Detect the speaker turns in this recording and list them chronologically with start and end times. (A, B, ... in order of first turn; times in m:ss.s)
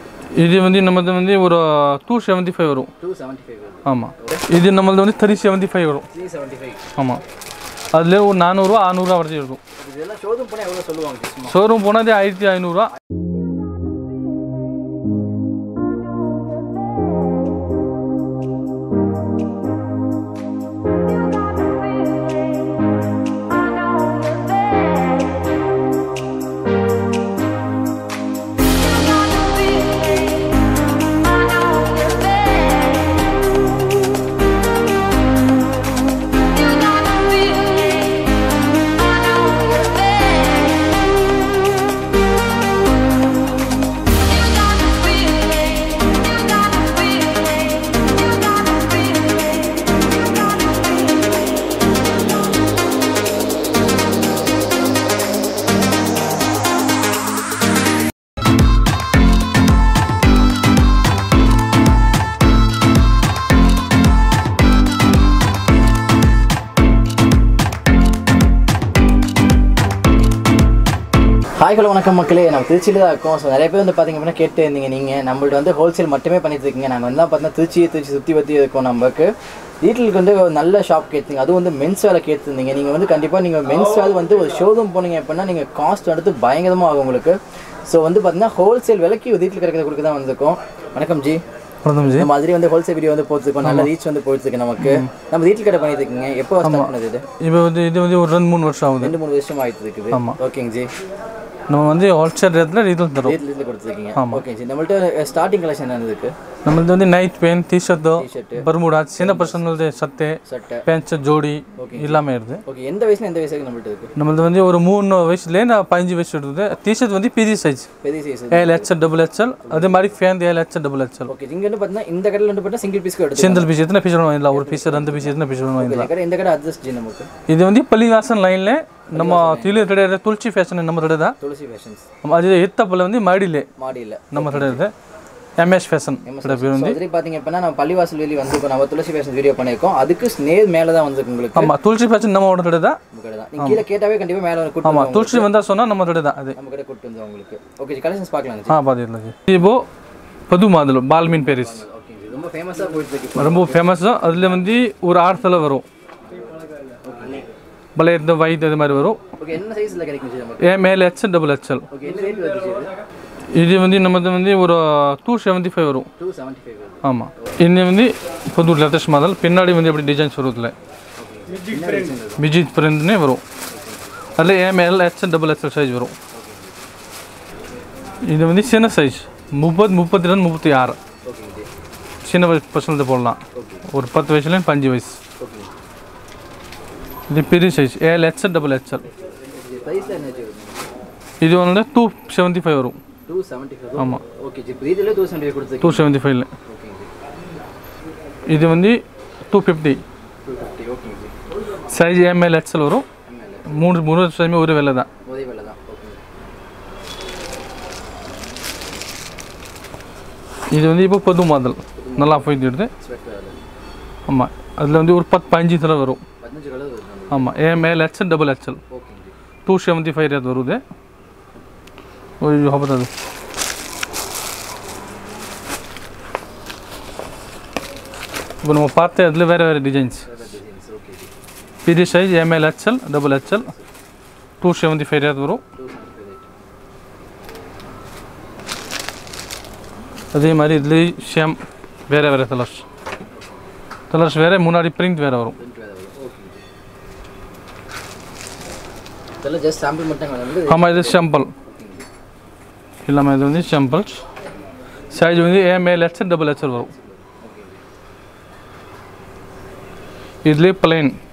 0:00.4-0:02.9 A
0:03.0-0:04.5 B
0:03.8-0:06.1 A
0:06.1-0:06.8 B
0:07.0-0:07.2 A
0:07.9-0:09.6 A
0:09.8-0:11.6 B
0:11.5-0:12.9 A
1:11.6-1:19.3 B
1:19.8-1:31.4 B
1:31.8-1:32.3 A
1:32.0-1:37.2 B
1:33.6-1:33.9 A
1:34.8-1:35.1 A
1:36.6-1:39.2 A
1:39.0-1:40.9 B
1:40.1-1:40.4 A
1:41.7-1:43.4 A
1:43.2-1:46.3 B
1:44.1-1:44.4 A
1:46.6-1:52.6 A
1:48.0-1:49.7 B
1:50.4-1:50.8 B
1:51.8-1:54.1 B
1:54.2-1:57.9 A
1:58.0-1:59.0 B
1:58.5-2:01.3 A
1:59.6-2:00.2 B
2:01.3-2:03.7 B
2:03.4-2:06.1 A
2:04.5-2:07.3 B
2:07.5-2:11.4 A
2:09.1-2:09.9 B
2:11.4-2:12.0 B
2:12.2-2:13.7 A
2:13.8-2:14.8 B
2:14.3-2:14.9 A
2:15.6-2:17.0 A
2:16.2-2:21.7 B
2:21.5-2:23.0 A
2:23.1-2:25.5 B
2:23.6-2:23.8 A
2:24.8-2:26.6 A
2:26.5-2:28.8 B
2:28.7-2:29.8 A
2:30.5-2:31.8 A
2:31.2-2:34.0 B
2:33.3-2:35.8 A
2:37.0-2:37.5 B
2:37.9-2:39.2 A
2:39.4-2:40.8 B
2:40.6-2:41.9 A
2:41.9-2:42.9 B
2:43.5-2:46.1 A
2:46.2-2:47.5 B
2:47.0-2:50.7 A
2:51.2-2:52.5 B
2:52.4-2:53.4 A
2:53.7-2:54.2 B
2:54.4-2:56.1 A
2:56.3-2:56.8 B
2:58.2-3:01.0 A
3:01.2-3:01.7 B
3:02.2-3:05.2 A
3:03.5-3:03.9 B
3:05.4-3:05.7 B
3:07.3-3:09.1 A
3:09.2-3:10.9 B
3:11.4-3:13.0 A
3:13.2-3:16.1 B
3:14.0-3:14.2 A
3:15.8-3:16.5 A
3:16.6-3:17.1 B
3:18.4-3:20.0 A
3:20.4-3:21.3 B
3:21.9-3:23.0 A
3:23.2-3:23.8 B
3:23.7-3:25.1 A
3:25.2-3:26.3 B
3:30.7-3:32.9 A
3:32.0-3:33.6 B
3:34.3-3:36.2 A
3:36.4-3:37.6 B
3:37.3-3:38.8 A
3:38.9-3:39.4 B
3:39.6-3:40.8 A
3:42.4-3:43.1 A
3:48.6-3:50.4 A
3:50.2-3:51.3 B
3:51.8-3:53.7 A
3:53.5-3:53.9 B
3:54.6-3:55.6 A
3:55.8-3:56.5 B
4:00.3-4:02.8 A
4:04.1-4:05.6 A
4:05.6-4:06.6 B
4:09.4-4:12.0 B
4:10.7-4:11.5 A
4:13.0-4:14.2 A
4:15.1-4:16.9 A
4:16.6-4:17.8 B
4:20.4-4:21.2 A